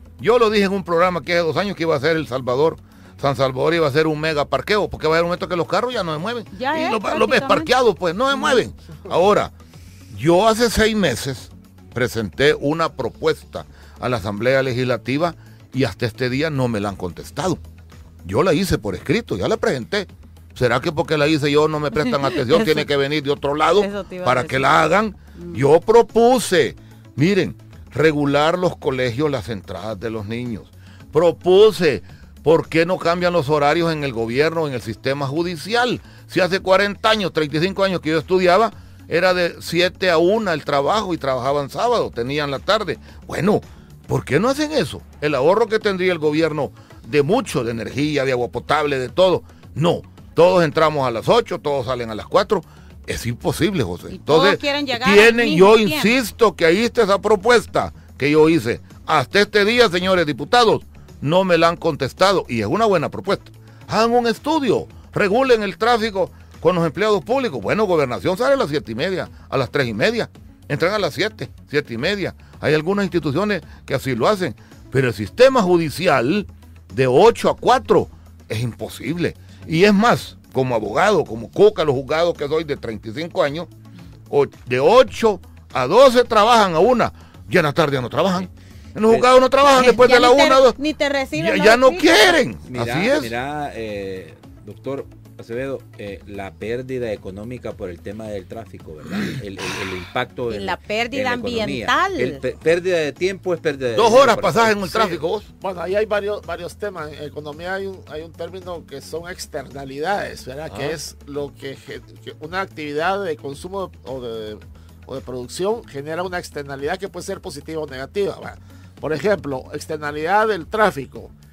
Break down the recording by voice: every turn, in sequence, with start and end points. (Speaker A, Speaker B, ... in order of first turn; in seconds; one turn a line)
Speaker A: 0.2-9.5
Speaker B: 6.5-7.7
Speaker B: 8.3-8.6
Speaker A: 10.1-17.6
Speaker A: 18.2-83.7
Speaker B: 22.0-22.9
Speaker B: 23.7-24.7
Speaker B: 25.4-25.6
Speaker B: 54.1-56.1
Speaker A: 84.3-90.8
Speaker B: 89.7-92.4
Speaker A: 91.3-93.3
Speaker C: 92.6-104.8
Speaker B: 100.5-102.4
Speaker A: 103.9-105.5
Speaker D: 104.8-121.3